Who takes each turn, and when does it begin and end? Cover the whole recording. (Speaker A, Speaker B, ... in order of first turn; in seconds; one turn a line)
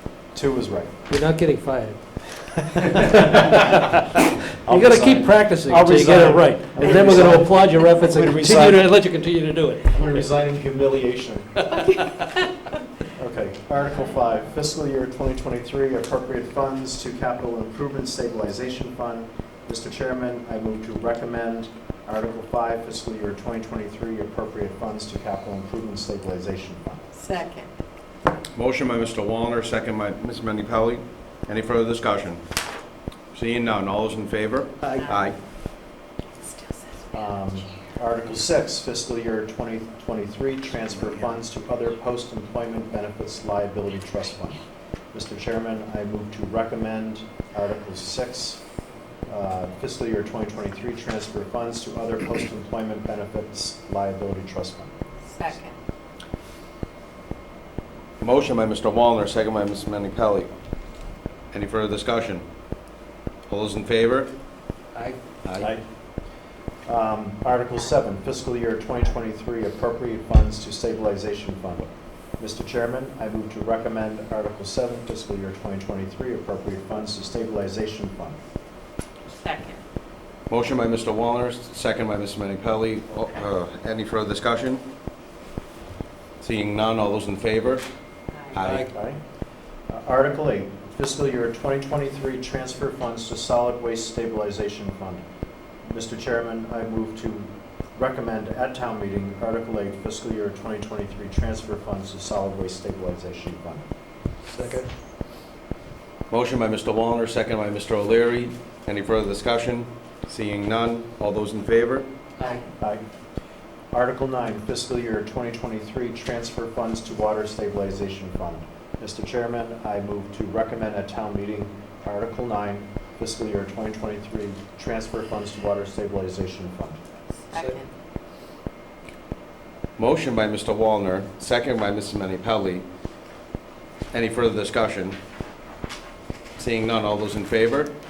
Speaker A: 0.3-1.0
Speaker B: 1.1-2.0
Speaker A: 2.7-8.8
Speaker B: 3.1-3.8
Speaker B: 4.7-9.9
Speaker A: 9.9-11.8
Speaker A: 13.1-27.1
Speaker C: 27.2-27.7
Speaker D: 28.6-32.4
Speaker D: 33.3-35.4
Speaker A: 37.1-44.6
Speaker A: 45.1-48.6
Speaker A: 49.3-54.9
Speaker C: 55.3-55.8
Speaker D: 58.2-60.5
Speaker D: 61.5-62.5
Speaker D: 63.5-64.3
Speaker D: 65.5-65.7
Speaker A: 66.9-78.4
Speaker C: 79.3-79.8
Speaker D: 80.5-84.8
Speaker D: 86.4-87.9
Speaker C: 88.3-88.6
Speaker D: 88.5-88.9
Speaker B: 88.6-88.9
Speaker A: 88.9-89.2
Speaker A: 89.9-95.2
Speaker A: 95.8-103.8
Speaker B: 104.5-104.9
Speaker D: 106.3-112.1
Speaker A: 113.9-127.0
Speaker C: 127.5-127.9
Speaker B: 127.5-127.8
Speaker D: 130.0-132.8
Speaker D: 134.1-135.2
Speaker D: 136.6-137.9